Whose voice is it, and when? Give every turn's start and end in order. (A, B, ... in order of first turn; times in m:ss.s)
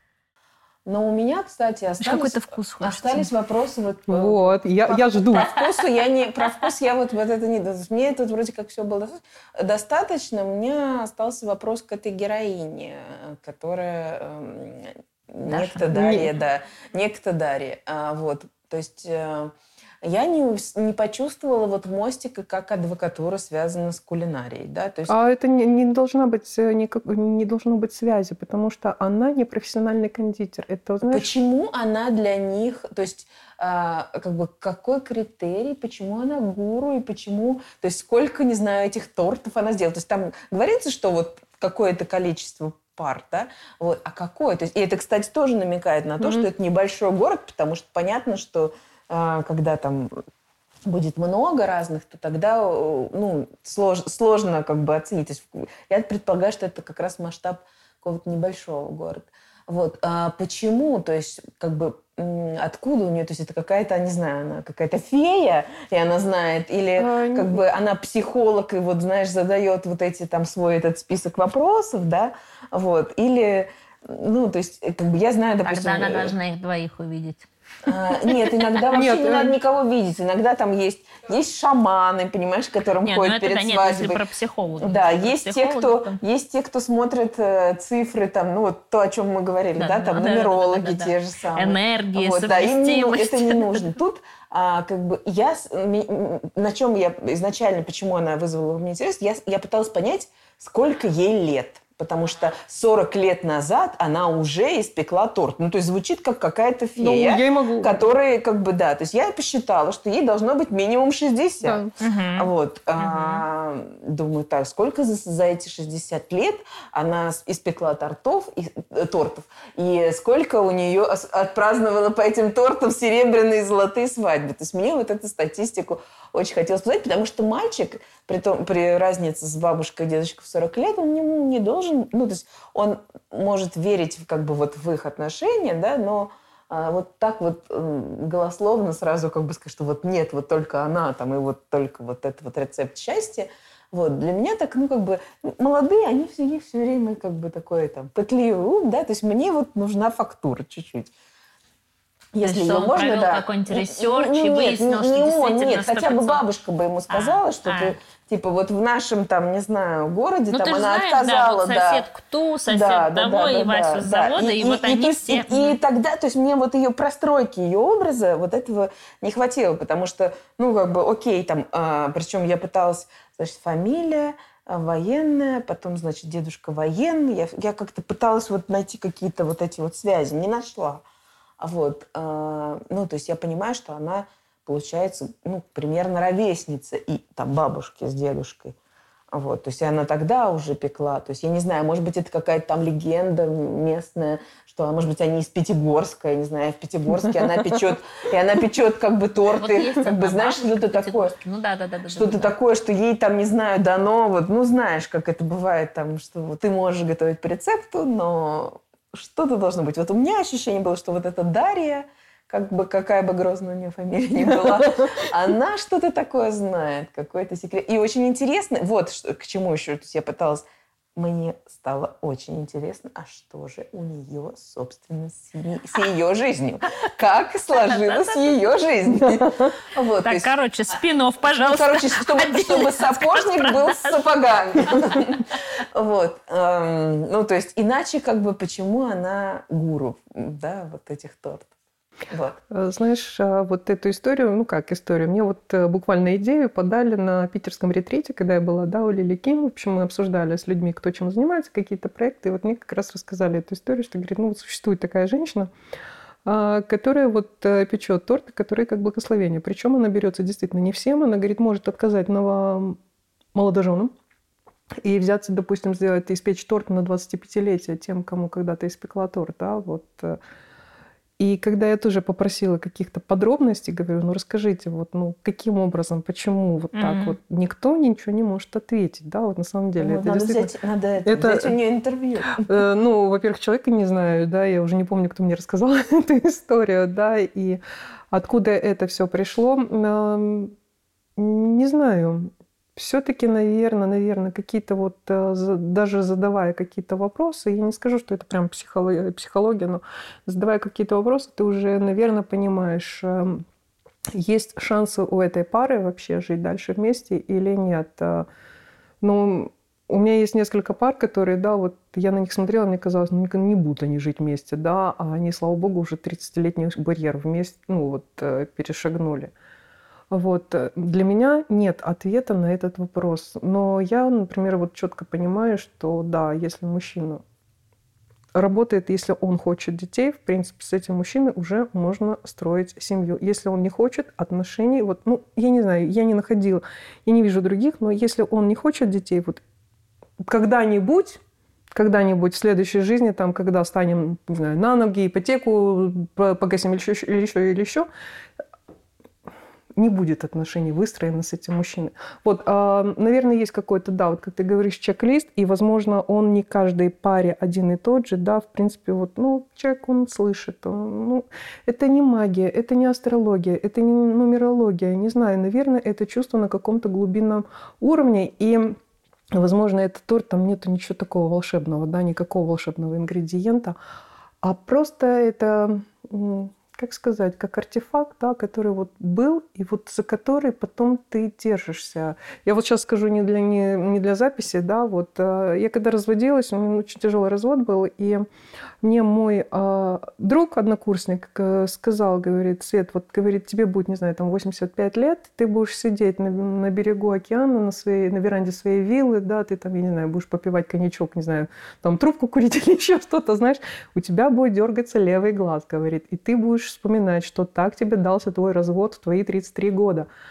0:00.8-0:25.1 A
0:02.0-0:03.3 B
0:04.1-0:05.5 C
0:15.5-0:15.8 B
0:15.9-0:16.3 C
0:25.1-0:31.3 C
0:31.1-0:50.1 A
0:46.2-0:46.4 C
0:50.8-1:16.3 A
1:07.0-1:07.6 C
1:15.6-1:17.5 B
1:17.8-1:24.2 A
1:18.9-1:19.5 C
1:23.0-1:26.2 B
1:24.8-2:31.1 A
1:29.8-1:34.0 B
1:47.0-1:48.0 C
1:51.6-1:51.9 C
1:52.0-1:53.4 B
2:32.3-2:42.0 A
2:32.4-2:36.4 B
2:37.1-2:37.9 B
2:40.5-2:45.8 B
2:42.7-3:01.0 A
3:01.6-3:08.7 A
3:09.3-3:21.3 A
3:19.5-3:22.5 B
3:22.1-3:51.0 A
3:47.7-3:48.6 B
3:49.2-3:49.7 C
3:50.2-3:55.2 B
3:51.6-4:01.7 A
4:02.3-4:02.6 A
4:02.7-4:15.7 C
4:16.4-4:23.0 C
4:23.5-4:24.1 C
4:25.0-4:30.4 C
4:31.4-4:40.7 C
4:36.9-4:37.4 B
4:40.0-4:42.8 A
4:41.2-4:41.7 C
4:42.6-4:47.8 C
4:48.3-4:50.7 C
4:51.4-5:03.6 C
5:04.3-5:08.4 C
5:09.2-5:19.5 C
5:20.3-5:27.4 C
5:28.5-5:39.6 C
5:40.4-5:41.4 C
5:41.9-5:48.1 C
5:50.0-6:09.0 C
6:09.5-6:13.9 C
6:14.6-6:28.4 C
6:29.0-6:50.3 C